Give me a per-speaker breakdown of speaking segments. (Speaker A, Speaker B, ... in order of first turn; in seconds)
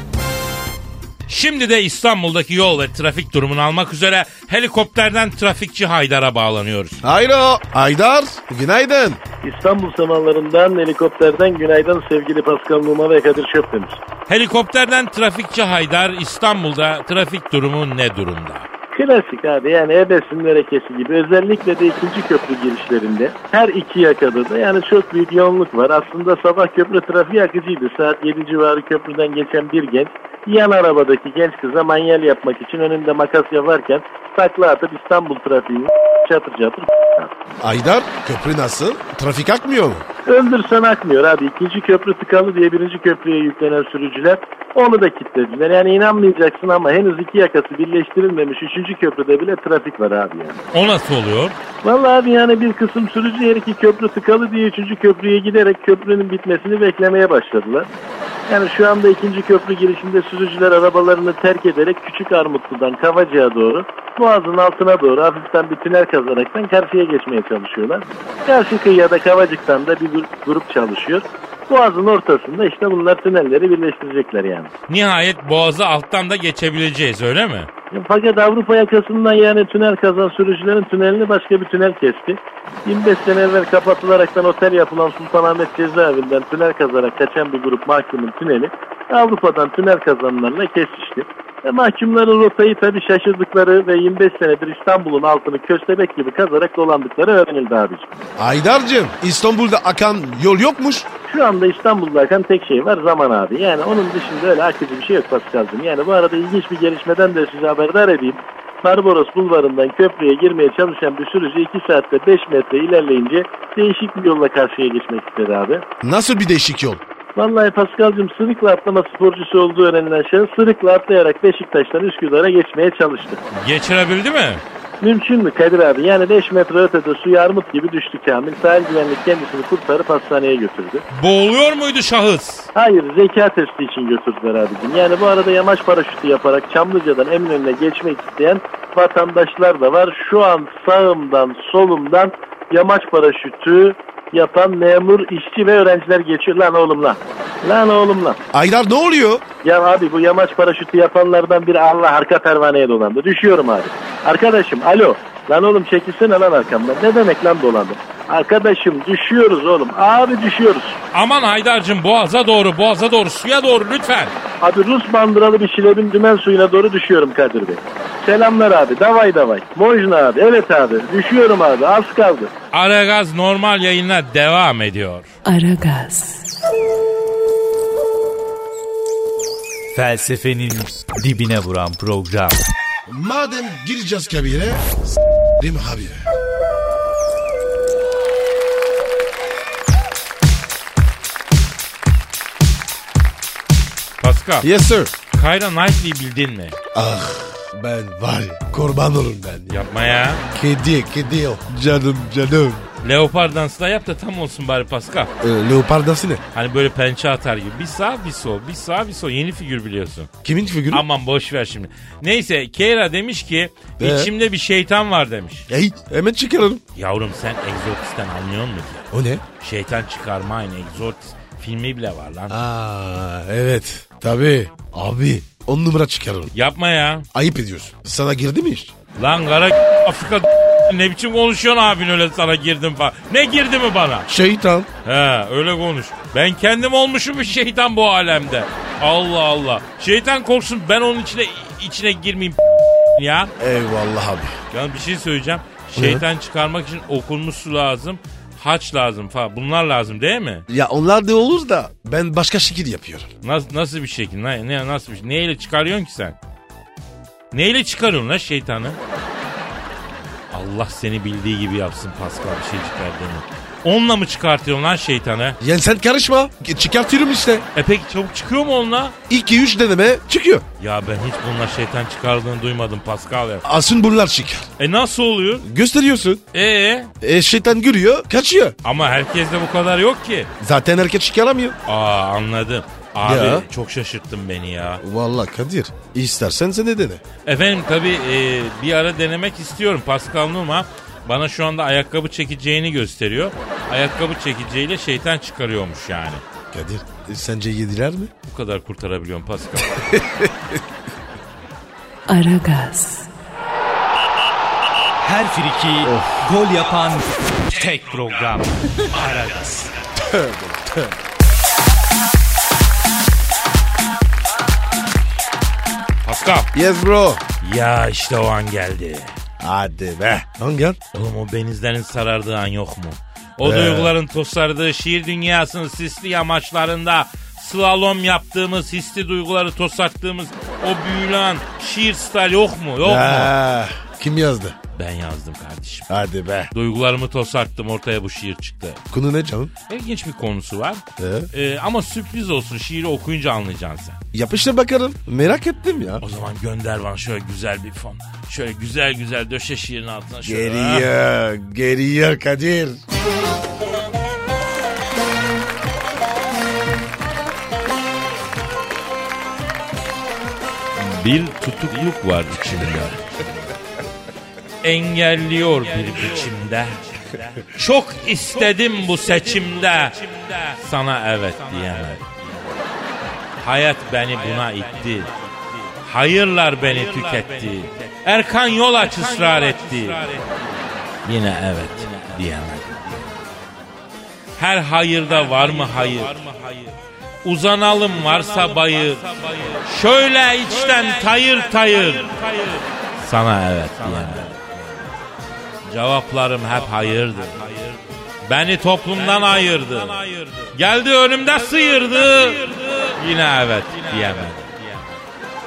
Speaker A: 1.3-7.0, 14.3-18.7, 50.7-51.5, 74.9-77.7, 123.5-124.6, 131.1-132.7, 161.1-164.3, 172.7-175.3, 194.2-194.7, 195.3-196.8, 199.7-200.4, 203.0-205.3, 206.5-210.3, 210.9-215.7, 216.9-219.0, 219.6-222.6, 226.5-227.2, 229.2-234.3, 235.0-242.6, 243.1-243.5, 244.7-250.6, 253.4-256.4, 257.5-259.0, 260.5-265.6, 267.8-269.1, 270.8-273.6, 274.8-275.6, 276.5-277.1, 278.8-280.5, 281.9-285.0, 287.4-296.4, 298.5-300.1, 316.2-316.7, 317.6-319.3, 321.1-333.5, 334.9-336.1, 336.7-339.0, 339.9-344.2, 346.2-351.1, 361.0-363.2, 364.8-372.7, 373.6-375.4, 375.9-383.4, 384.6-394.6, 395.9-405.0
Speaker B: 7.0-9.2, 37.6-40.0, 98.4-101.1, 116.0-117.0, 148.5-149.4, 183.1-184.8, 185.6-186.2, 194.6-195.1, 196.9-199.7, 200.5-202.8, 205.4-206.4, 210.4-211.0, 214.0-214.3, 215.7-216.8, 219.1-219.4, 222.5-226.5, 227.3-228.9, 234.3-234.9, 243.6-244.5, 245.9-246.2, 250.7-253.3, 265.6-267.6, 269.3-270.6, 273.6-274.7, 275.6-276.4, 277.2-278.8, 280.6-281.7, 283.2-283.6, 285.0-287.2, 296.7-298.3, 299.8-300.8, 306.0-306.4, 310.2-311.1, 316.7-317.4, 319.6-321.0, 323.6-324.1, 333.0-334.8, 336.1-336.7, 339.1-339.7, 341.2-341.5, 344.3-346.2, 350.4-353.0
Speaker C: 9.4-14.0, 18.9-37.3, 40.2-50.6, 51.8-57.9, 58.5-74.7, 77.9-98.1, 101.3-115.8, 117.3-123.4, 125.0-131.0, 132.7-148.4, 149.6-161.0, 164.6-172.5
Speaker D: 175.4-176.5, 302.3-303.3
Speaker E: 179.9-182.6, 305.2-309.9